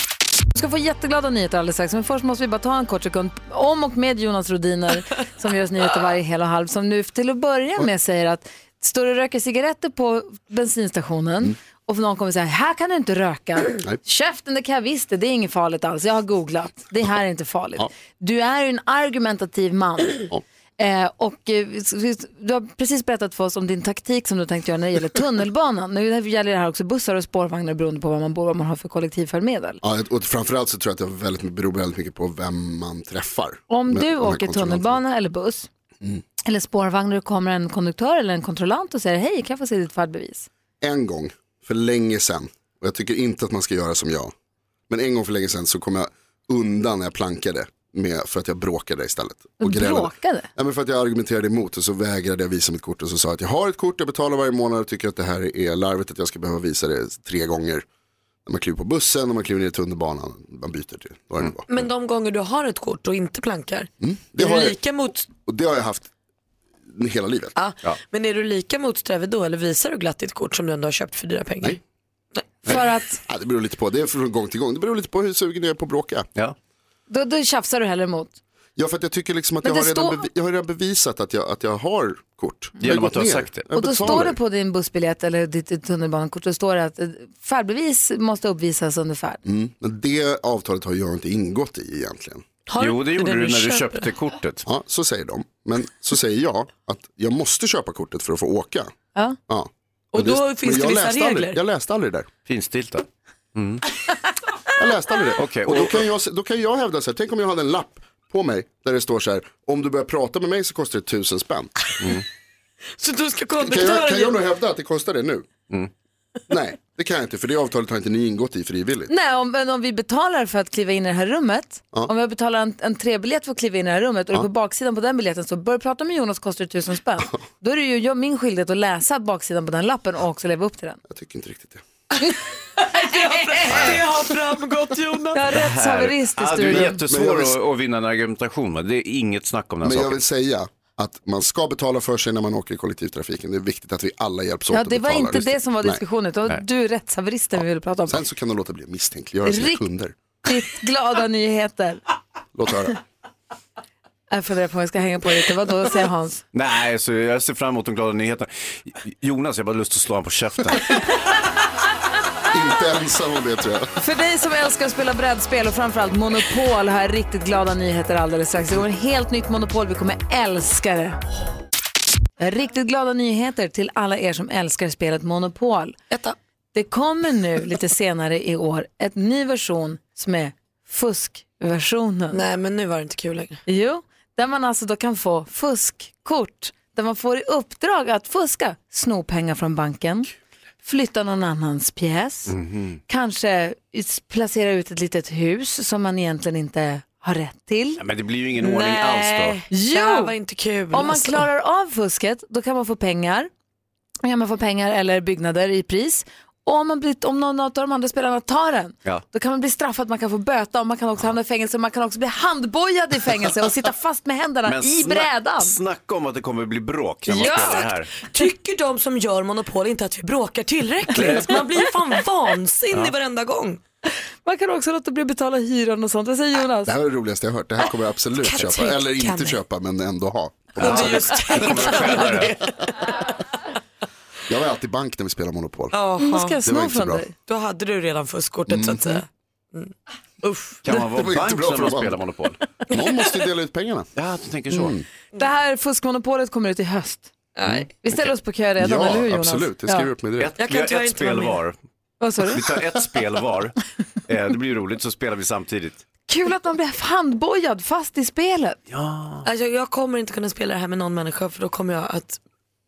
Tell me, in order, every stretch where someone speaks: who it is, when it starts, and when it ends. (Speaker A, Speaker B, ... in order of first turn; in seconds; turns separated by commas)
Speaker A: 0.5-20.3, Speaker A: 20.8-29.8, Speaker B: 29.8-35.0, Speaker A: 33.7-35.7, Speaker A: 36.4-40.5, Speaker B: 40.8-44.3, Speaker B: 44.9-57.8, Speaker A: 49.6-50.5, Speaker B: 58.5-61.6, Speaker C: 61.7-65.3, Speaker B: 64.0-64.8, Speaker B: 65.4-66.1, Speaker B: 66.9-67.5, Speaker C: 67.5-71.8, Speaker A: 72.7-73.2, Speaker B: 72.7-76.2, Speaker A: 77.1-78.4, Speaker B: 78.8-84.3, Speaker A: 79.6-80.2, Speaker D: 82.8-84.3, Speaker A: 83.7-89.4, Speaker B: 89.4-92.4, Speaker C: 92.7-94.1, Speaker D: 92.8-94.7, Speaker B: 94.7-98.9, Speaker B: 99.5-102.3, Speaker C: 100.1-101.6, Speaker D: 102.5-103.8, Speaker B: 104.8-111.7, Speaker D: 105.4-106.0, Speaker C: 113.0-114.4, Speaker B: 113.6-115.5, Speaker B: 116.5-119.1, Speaker A: 119.1-131.0, Speaker B: 131.1-131.8, Speaker C: 132.8-135.5, Speaker B: 133.7-134.0, Speaker A: 135.3-137.0, Speaker D: 135.5-140.2, Speaker B: 136.6-137.6, Speaker B: 139.8-146.0, Speaker A: 144.7-148.2, Speaker B: 148.1-150.1, Speaker A: 149.4-149.8, Speaker A: 150.4-152.0, Speaker B: 152.5-153.0, Speaker A: 154.3-156.4, Speaker D: 156.5-161.0, Speaker B: 162.5-163.9, Speaker A: 164.0-171.2, Speaker A: 172.4-176.0, Speaker C: 176.1-176.3, Speaker A: 176.7-182.4, Speaker C: 182.3-183.6, Speaker A: 183.7-190.3, Speaker A: 190.8-192.5, Speaker D: 192.5-193.0, Speaker A: 193.1-198.0, Speaker D: 198.0-199.6, Speaker C: 198.6-201.5, Speaker A: 199.7-200.3, Speaker A: 200.9-203.5, Speaker A: 204.2-215.8, Speaker D: 214.7-218.1, Speaker A: 217.3-217.8, Speaker C: 217.3-223.8, Speaker D: 221.2-221.5, Speaker A: 224.4-226.9, Speaker B: 226.8-232.5, Speaker C: 228.4-229.6, Speaker C: 230.8-233.1, Speaker D: 230.8-232.6, Speaker B: 234.5-235.9, Speaker C: 235.9-236.6, Speaker A: 236.2-237.3, Speaker B: 236.6-237.2, Speaker C: 237.5-239.9, Speaker B: 238.7-239.2, Speaker C: 240.4-240.8, Speaker D: 240.8-242.6, Speaker B: 240.9-242.2, Speaker B: 242.9-244.1, Speaker D: 244.2-244.9, Speaker B: 244.7-245.0, Speaker A: 245.3-247.3, Speaker C: 247.6-247.9, Speaker A: 248.0-250.1, Speaker B: 248.8-250.5, Speaker D: 250.4-251.7, Speaker C: 250.6-251.6, Speaker A: 252.2-252.6, Speaker D: 252.5-256.0, Speaker A: 256.3-258.8, Speaker D: 258.9-259.4, Speaker C: 259.4-262.4